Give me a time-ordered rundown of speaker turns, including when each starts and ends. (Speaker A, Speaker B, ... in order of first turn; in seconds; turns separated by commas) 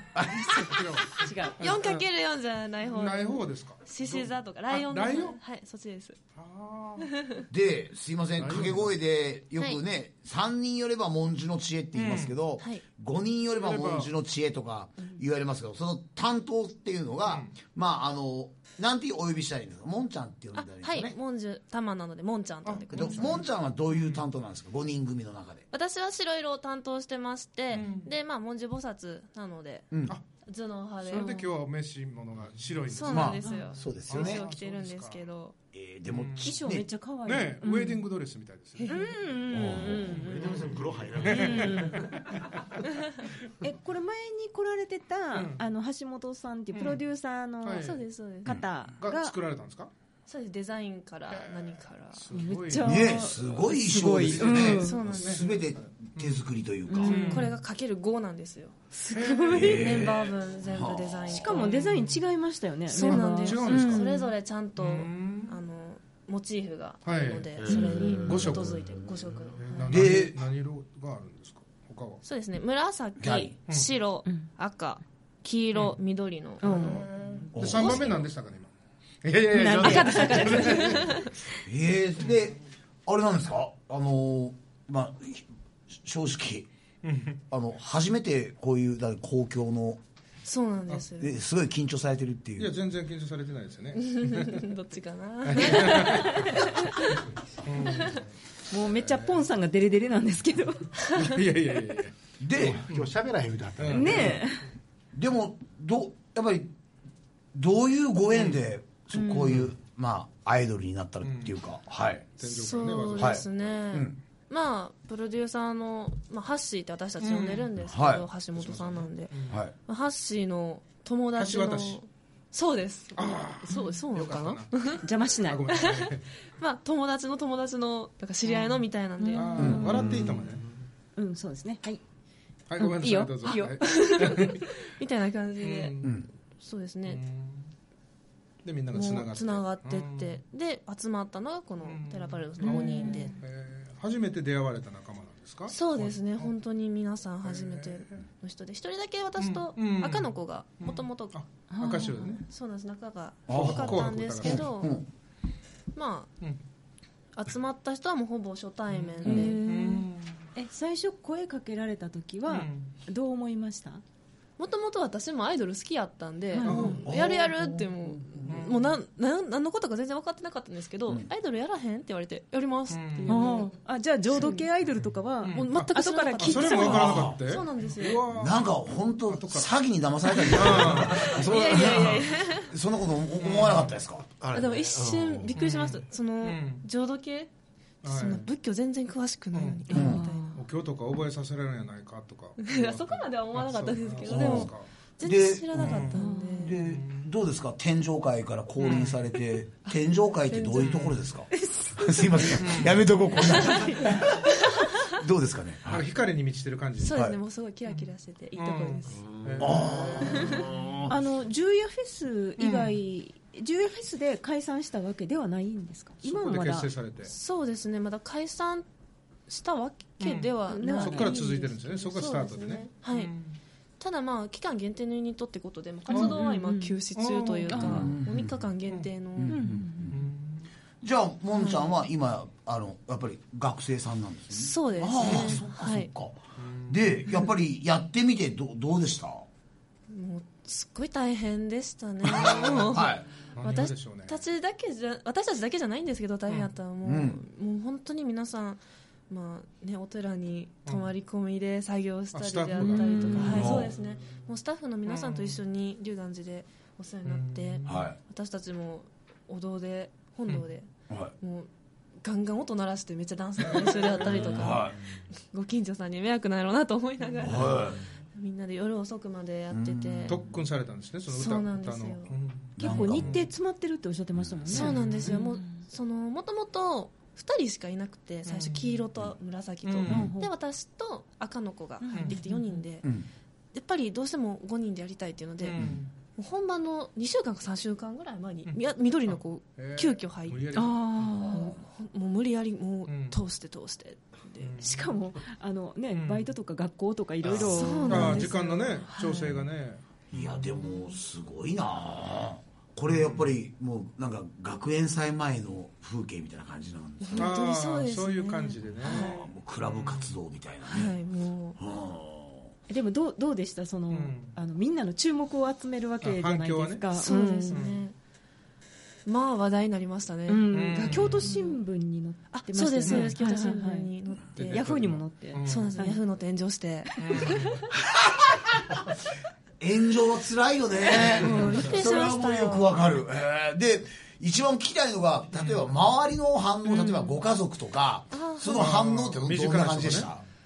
Speaker A: 0.1-0.9, Speaker B: 0.3-2.0, Speaker C: 1.2-1.6, Speaker D: 1.6-6.2, Speaker B: 2.9-5.4, Speaker B: 6.3-7.0, Speaker D: 7.1-7.4, Speaker A: 7.5-21.2, Speaker B: 8.4-8.9, Speaker B: 11.9-12.4, Speaker B: 13.6-14.1, Speaker B: 17.2-17.5, Speaker D: 20.6-23.4, Speaker B: 22.6-23.4, Speaker A: 22.9-25.7, Speaker B: 23.9-24.2, Speaker D: 25.7-31.5, Speaker B: 27.7-28.1, Speaker B: 31.0-35.2, Speaker D: 32.9-35.5, Speaker A: 33.1-34.5, Speaker A: 35.7-36.9, Speaker B: 36.1-36.6, Speaker C: 36.4-38.0, Speaker B: 37.2-39.0, Speaker D: 38.8-39.1, Speaker C: 38.9-40.7, Speaker A: 39.5-40.1, Speaker B: 40.0-42.7, Speaker E: 40.1-41.9, Speaker C: 41.2-42.2, Speaker C: 43.6-49.4, Speaker B: 45.3-45.6, Speaker B: 46.7-47.0, Speaker B: 47.6-48.0, Speaker D: 47.8-48.6, Speaker B: 49.0-49.9, Speaker D: 50.3-52.2, Speaker B: 51.3-55.6, Speaker C: 52.3-55.0, Speaker A: 52.8-57.3, Speaker D: 54.6-55.5, Speaker B: 56.1-56.5, Speaker C: 56.9-57.5, Speaker B: 57.0-57.6, Speaker D: 57.1-58.9, Speaker C: 58.9-60.0, Speaker B: 59.1-60.1, Speaker A: 59.5-61.4, Speaker D: 59.5-61.7, Speaker C: 61.3-64.3, Speaker B: 61.4-62.2, Speaker B: 62.9-64.2, Speaker D: 62.9-70.0, Speaker B: 64.8-65.5, Speaker B: 67.0-68.8, Speaker E: 67.6-68.5, Speaker C: 67.7-68.3, Speaker B: 69.5-72.2, Speaker A: 69.9-70.4, Speaker D: 72.2-77.0, Speaker A: 73.2-73.5, Speaker C: 76.6-77.0, Speaker B: 76.7-78.7, Speaker A: 77.5-78.2, Speaker D: 77.6-78.2, Speaker B: 79.2-81.2, Speaker C: 79.5-81.2, Speaker E: 79.6-80.1, Speaker D: 79.8-81.3, Speaker A: 81.6-86.7, Speaker B: 87.0-87.4, Speaker A: 87.5-90.0, Speaker D: 90.4-91.3, Speaker A: 91.2-92.7, Speaker B: 92.6-94.6, Speaker D: 94.0-97.2, Speaker B: 95.4-96.7, Speaker B: 97.6-98.2, Speaker D: 97.8-98.2, Speaker C: 98.7-101.3, Speaker B: 99.0-99.4, Speaker B: 101.2-102.2, Speaker A: 102.4-102.9, Speaker E: 102.7-104.3, Speaker B: 102.7-103.1, Speaker B: 103.8-104.4, Speaker C: 103.9-104.7, Speaker A: 105.1-106.7, Speaker A: 107.5-112.3, Speaker C: 109.1-109.7, Speaker B: 111.2-111.5, Speaker B: 112.3-113.5, Speaker D: 112.4-125.0, Speaker A: 113.2-114.2, Speaker B: 117.2-117.7, Speaker A: 117.8-118.3, Speaker B: 118.5-119.6, Speaker B: 121.3-122.0, Speaker B: 123.1-126.2, Speaker C: 125.0-125.7, Speaker D: 125.7-129.8, Speaker B: 128.4-130.7, Speaker C: 129.2-130.2, Speaker A: 129.6-129.9, Speaker E: 129.9-130.3, Speaker C: 131.2-132.0, Speaker B: 132.7-134.7, Speaker C: 132.8-133.8, Speaker D: 133.5-135.9, Speaker B: 135.6-136.2, Speaker A: 136.0-136.3, Speaker D: 136.6-137.2, Speaker B: 137.1-137.7, Speaker B: 138.6-140.4, Speaker D: 138.9-143.3, Speaker B: 141.8-146.5, Speaker C: 142.6-143.3, Speaker D: 145.7-151.4, Speaker B: 147.4-148.3, Speaker B: 149.4-152.4, Speaker C: 151.7-152.4, Speaker D: 152.4-155.0, Speaker B: 153.5-154.7, Speaker A: 153.5-155.1, Speaker D: 155.9-156.3, Speaker D: 157.3-159.6, Speaker B: 158.9-160.4, Speaker C: 159.2-164.0, Speaker B: 162.5-162.9, Speaker D: 164.6-173.7, Speaker C: 166.5-167.0, Speaker B: 166.6-167.2, Speaker A: 167.0-168.6, Speaker B: 168.4-168.9, Speaker B: 172.9-173.6, Speaker C: 173.3-177.1, Speaker D: 174.3-174.7, Speaker B: 175.4-175.9, Speaker D: 175.5-178.2, Speaker B: 176.4-178.6, Speaker A: 176.9-177.4, Speaker A: 178.3-184.2, Speaker B: 179.2-179.7, Speaker B: 180.4-182.2, Speaker D: 181.2-182.7, Speaker B: 183.4-183.9, Speaker E: 184.4-185.5, Speaker D: 184.5-187.5, Speaker B: 185.5-186.8, Speaker B: 188.0-188.5, Speaker D: 188.0-190.5, Speaker B: 189.5-194.9, Speaker C: 189.9-190.6, Speaker A: 189.9-190.2, Speaker D: 192.6-196.8, Speaker A: 194.2-206.1, Speaker B: 195.8-196.2, Speaker C: 196.1-196.7, Speaker B: 196.8-197.3, Speaker B: 198.8-199.4, Speaker D: 199.8-201.0, Speaker B: 200.7-201.3, Speaker C: 201.5-202.5, Speaker B: 202.6-203.0, Speaker D: 203.5-204.0, Speaker C: 203.6-203.9, Speaker B: 205.9-207.2, Speaker D: 207.0-209.2, Speaker B: 207.8-210.7, Speaker E: 209.1-209.9, Speaker A: 209.6-211.1, Speaker D: 210.2-210.7, Speaker C: 211.1-216.9, Speaker B: 212.6-212.9, Speaker B: 216.2-217.3, Speaker D: 217.3-218.9, Speaker D: 219.5-223.3, Speaker B: 220.2-223.6, Speaker C: 220.7-222.0, Speaker D: 224.0-229.6, Speaker C: 226.1-227.0, Speaker B: 226.1-226.4, Speaker B: 227.1-228.2, Speaker C: 227.7-228.1, Speaker A: 227.8-228.7, Speaker A: 229.4-230.2, Speaker C: 229.5-230.1, Speaker B: 230.1-230.7, Speaker A: 231.0-239.5, Speaker D: 231.5-232.0, Speaker D: 234.5-236.1, Speaker B: 236.6-237.5, Speaker D: 240.1-261.7, Speaker A: 242.2-243.3, Speaker B: 242.5-242.9, Speaker B: 243.5-244.4, Speaker A: 247.0-247.4, Speaker B: 252.3-253.9, Speaker C: 252.8-253.7, Speaker A: 253.4-253.9, Speaker B: 255.1-255.6, Speaker B: 257.2-258.1, Speaker A: 257.9-258.2, Speaker D: 262.2-270.4, Speaker B: 263.6-264.8, Speaker A: 264.2-265.0, Speaker A: 267.4-268.0, Speaker A: 269.7-270.4, Speaker B: 270.3-273.5, Speaker D: 271.3-272.3, Speaker A: 272.8-273.4, Speaker C: 272.8-275.8, Speaker B: 274.7-275.5, Speaker D: 274.7-283.1, Speaker B: 278.4-279.1, Speaker B: 279.8-280.3, Speaker C: 280.1-280.5, Speaker C: 282.0-282.8, Speaker B: 282.1-282.4, Speaker D: 283.7-285.8, Speaker B: 285.6-286.1, Speaker D: 286.3-294.8, Speaker B: 288.6-291.5, Speaker C: 290.7-291.8, Speaker B: 293.1-293.4, Speaker B: 294.6-295.2, Speaker C: 294.8-298.9, Speaker B: 296.1-296.5, Speaker A: 297.5-298.0, Speaker D: 297.6-299.6, Speaker B: 298.1-300.9, Speaker A: 300.3-307.6, Speaker B: 303.1-303.6, Speaker D: 307.2-309.4, Speaker B: 307.4-310.3, Speaker A: 309.1-311.2, Speaker D: 310.9-311.8, Speaker A: 311.8-312.7, Speaker C: 312.9-317.8, Speaker B: 314.1-314.6, Speaker B: 316.2-317.2, Speaker D: 317.1-318.1, Speaker B: 317.7-318.0, Speaker D: 319.2-321.6, Speaker C: 320.5-326.2, Speaker B: 320.7-321.5, Speaker D: 322.5-324.8, Speaker B: 323.0-323.4, Speaker B: 324.5-326.1, Speaker D: 325.6-327.8, Speaker B: 327.2-327.7, Speaker A: 328.0-329.0, Speaker A: 329.8-340.4, Speaker D: 331.1-333.0, Speaker C: 331.4-331.8, Speaker B: 335.6-335.9, Speaker C: 336.9-337.4, Speaker D: 338.3-338.9, Speaker B: 338.7-340.3